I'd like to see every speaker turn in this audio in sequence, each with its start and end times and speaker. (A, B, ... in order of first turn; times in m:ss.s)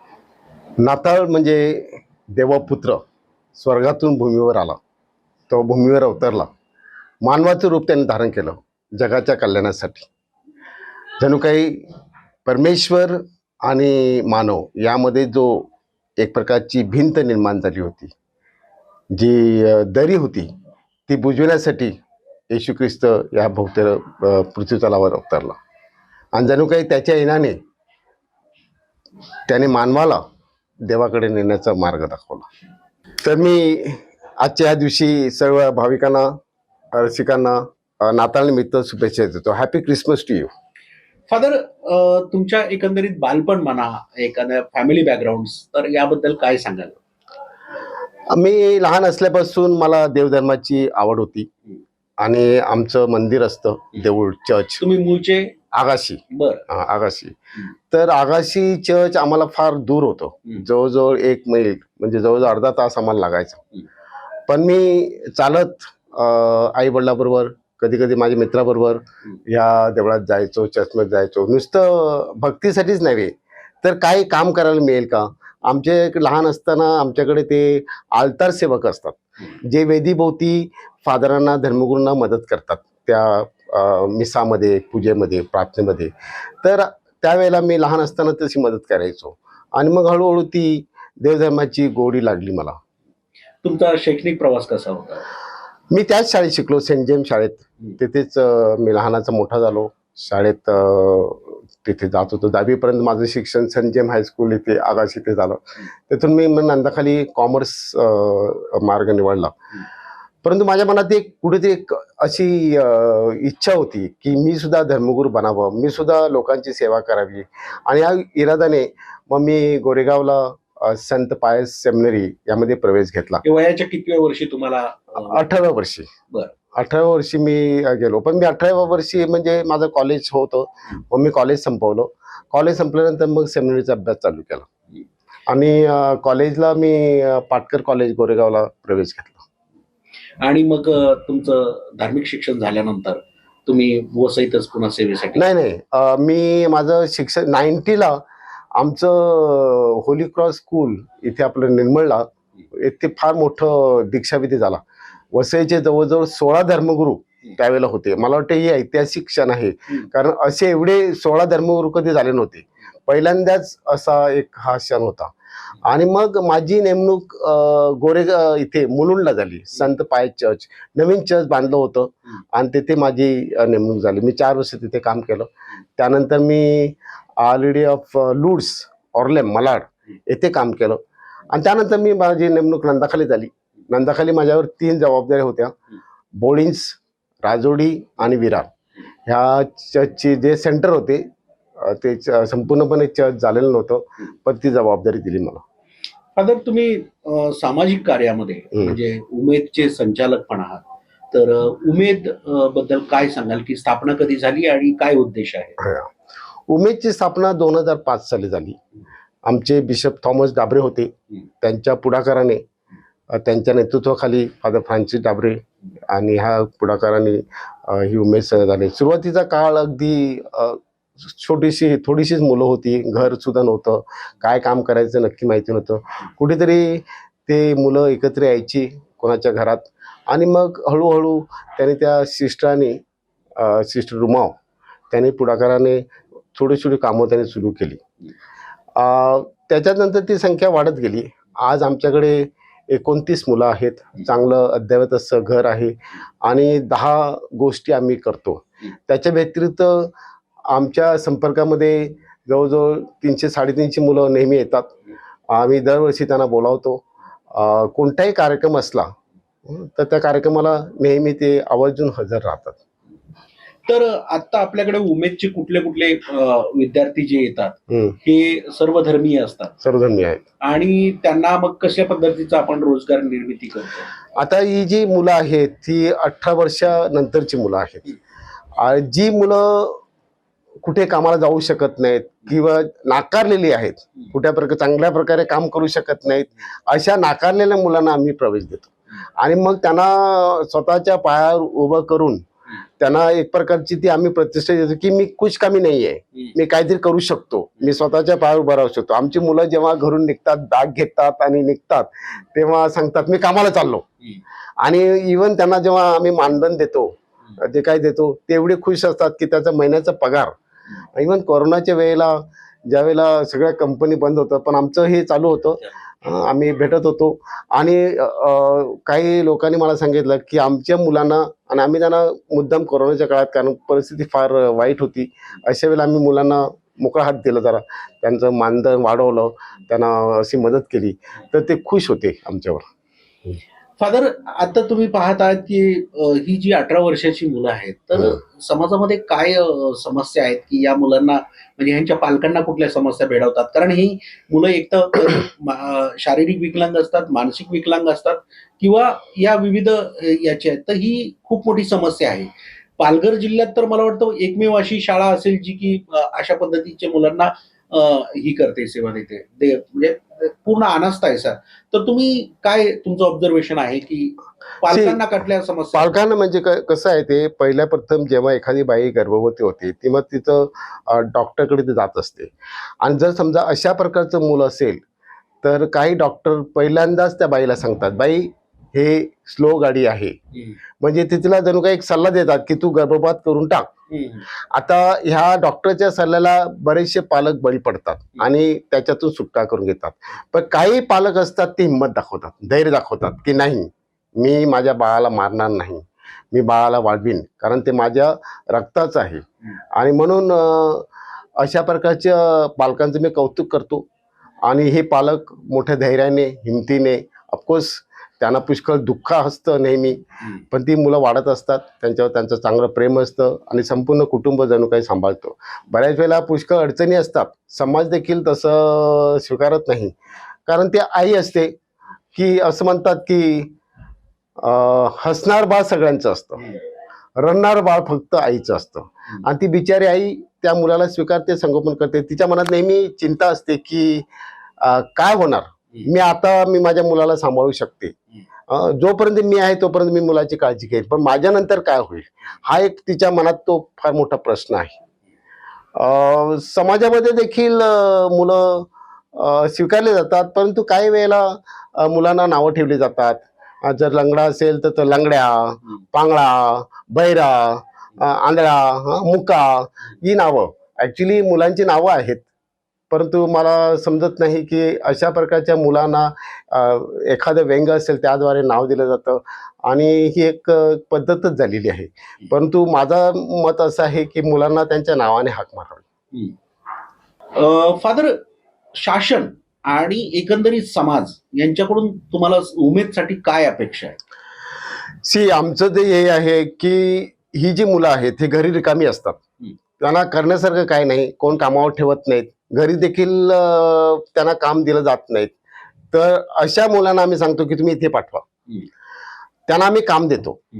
0:00.8-0:03.0 A
0:03.6-0:04.8 A
0:05.5-0:06.5 A
0:07.2-0:10.1 A
0:11.2-0:11.9 A
0:12.4-0:15.7 A
0:16.2-0:18.1 A
0:19.2-0:20.5 A
0:21.1-0:22.0 A
0:22.5-0:25.6 A
0:26.4-0:27.6 A
0:29.5-0:30.2 A
0:30.8-0:32.5 A
0:33.2-0:36.3 A
0:36.9-0:40.5 A
0:41.3-0:47.0 B
0:48.3-0:51.5 A
0:52.2-0:54.8 A
0:54.8-0:55.6 B
0:55.7-0:57.4 A
0:56.3-0:56.6 B
0:57.9-1:03.6 A
1:04.5-1:26.1 A
1:26.6-1:32.8 A
1:33.6-1:35.3 B
1:35.9-1:49.6 A
1:50.4-2:03.4 A
2:03.4-2:05.4 B
2:05.2-2:06.1 A
2:06.8-2:14.7 A
2:15.5-2:19.5 A
2:20.4-2:25.4 B
2:25.4-2:28.2 A
2:28.8-2:34.8 A
2:35.3-3:05.7 A
3:06.4-3:08.7 A
3:09.3-3:11.3 A
3:11.8-3:15.6 A
3:16.4-3:25.8 B
3:25.8-3:26.1 A
3:26.7-3:28.8 A
3:29.4-3:32.6 A
3:33.3-3:53.0 A
3:53.6-3:54.6 A
3:55.1-3:58.0 A
3:59.0-4:10.1 A
4:10.7-4:14.9 A
4:15.5-4:19.1 A
4:19.7-4:22.8 A
4:23.9-4:29.7 B
4:27.9-4:28.2 A
4:29.8-4:30.5 A
4:30.6-4:34.1 B
4:34.4-4:38.1 A
4:38.8-4:40.0 A
4:40.8-4:52.4 A
4:53.0-5:04.1 A
5:04.8-5:10.5 A
5:11.2-5:32.8 A
5:34.0-6:06.1 B
6:04.9-6:05.2 A
6:05.9-6:12.5 A
6:13.0-6:15.0 A
6:15.6-6:20.4 A
6:21.0-6:23.9 A
6:24.1-6:24.4 B
6:24.7-6:41.1 A
6:41.6-6:44.1 A
6:44.7-7:00.2 A
7:00.7-7:01.7 A
7:02.3-7:03.7 A
7:04.6-7:06.8 A
7:07.4-7:14.3 A
7:14.8-7:18.2 A
7:18.7-7:25.0 A
7:26.0-7:42.5 A
7:43.1-7:56.0 A
7:57.6-7:58.4 B
7:59.0-8:04.2 B
8:05.2-8:09.4 A
8:10.0-8:15.5 A
8:16.1-8:18.5 A
8:19.7-8:20.6 A